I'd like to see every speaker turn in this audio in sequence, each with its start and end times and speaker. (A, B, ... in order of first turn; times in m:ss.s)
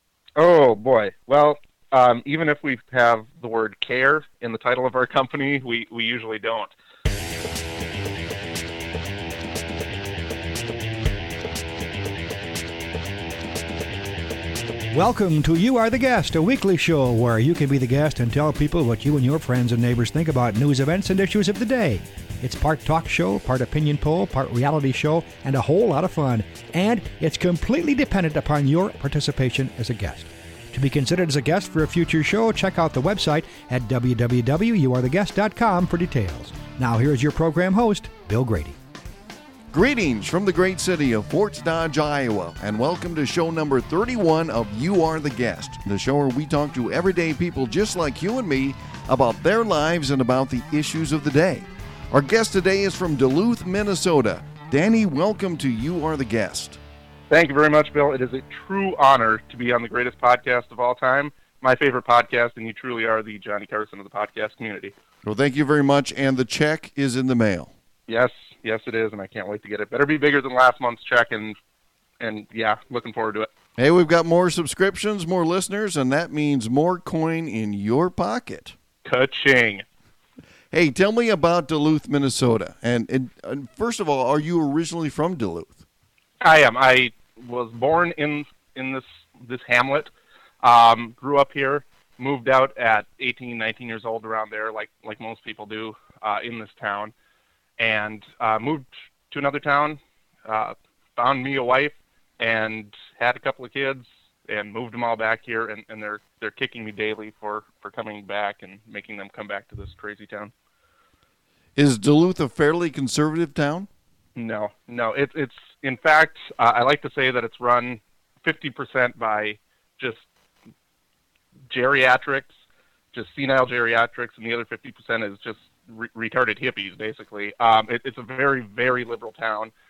0:00.4-0:06.7 A
0:14.9-0:38.8 B
0:39.7-0:56.8 C
0:57.3-1:04.9 A
1:05.2-1:07.7 C
1:08.1-1:11.6 A
1:12.2-1:13.5 A
1:13.8-1:18.8 C
1:19.0-1:19.8 A
1:20.7-1:25.8 C
1:26.4-1:30.1 A
1:30.6-1:37.1 A
1:37.8-1:50.5 A
1:51.8-1:53.9 C
1:54.4-2:00.2 A
2:01.7-2:02.5 A
2:03.1-2:09.7 A